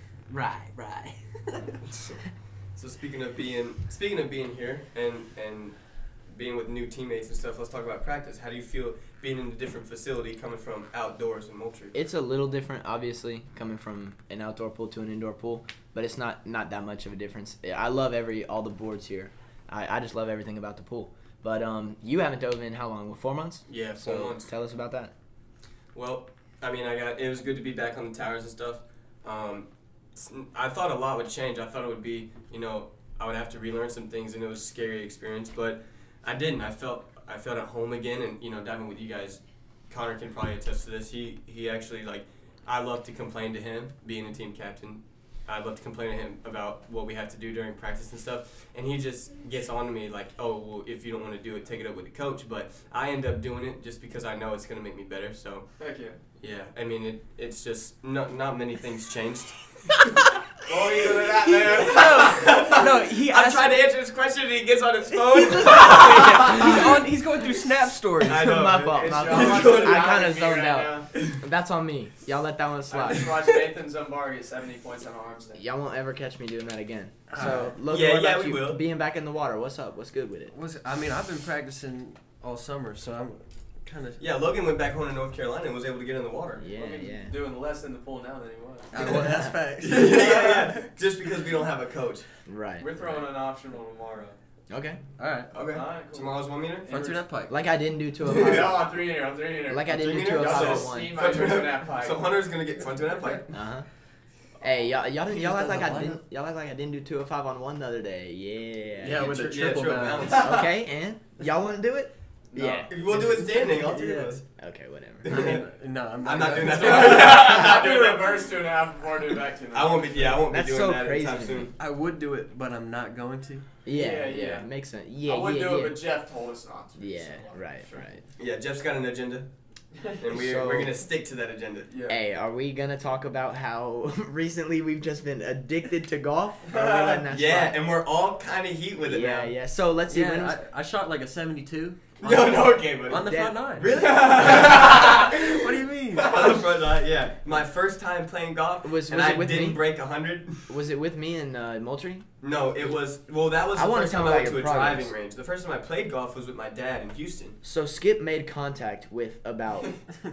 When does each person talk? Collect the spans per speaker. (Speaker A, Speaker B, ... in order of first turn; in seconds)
Speaker A: 0.3-2.2, 61.8-63.8, 65.1-68.8, 77.3-77.7, 80.5-84.2, 88.9-90.7, 95.2-95.5, 96.9-97.5, 105.3-106.2, 109.0-110.4, 113.1-114.4, 115.2-117.6, 121.8-123.7, 140.1-146.4
Speaker B: 2.8-5.8, 6.3-11.9, 23.7-24.5, 25.9-55.7, 56.4-59.6, 60.9-67.0, 68.2-70.2, 77.9-78.8, 84.2-86.7, 89.8-92.3, 95.5-96.9, 98.3-98.7, 99.9-103.5, 109.2-110.5, 112.5-114.4, 115.2-115.6, 116.2-118.5, 119.7-121.7, 128.4-129.5, 130.2-132.0, 137.2-139.5, 142.2-145.6, 146.2-150.7, 152.4-157.6
Speaker C: 11.9-25.1, 68.4-73.3, 75.5-80.5, 86.6-87.3, 89.2-89.5, 92.5-92.9, 94.7-95.0, 97.5-98.8, 99.7-101.2, 103.5-103.9, 104.6-109.3, 110.3-113.3, 114.6-115.5, 120.5-121.7, 123.8-126.0, 127.0-128.2, 130.3-130.9, 132.1-137.8, 139.1-140.6, 143.2-143.6, 148.8-149.8, 150.7-152.2, 153.8-155.1, 157.6-159.9
Speaker D: 55.8-56.2, 60.7-63.0, 65.6-66.6, 68.9-71.1, 72.9-75.6, 86.7-89.2, 92.8-94.4, 95.6-97.2, 98.3-102.4, 110.4-110.7, 116.7-120.5, 123.9-124.7, 125.2-127.5, 131.9-132.2, 136.7-137.2, 143.9-145.4, 146.2-146.7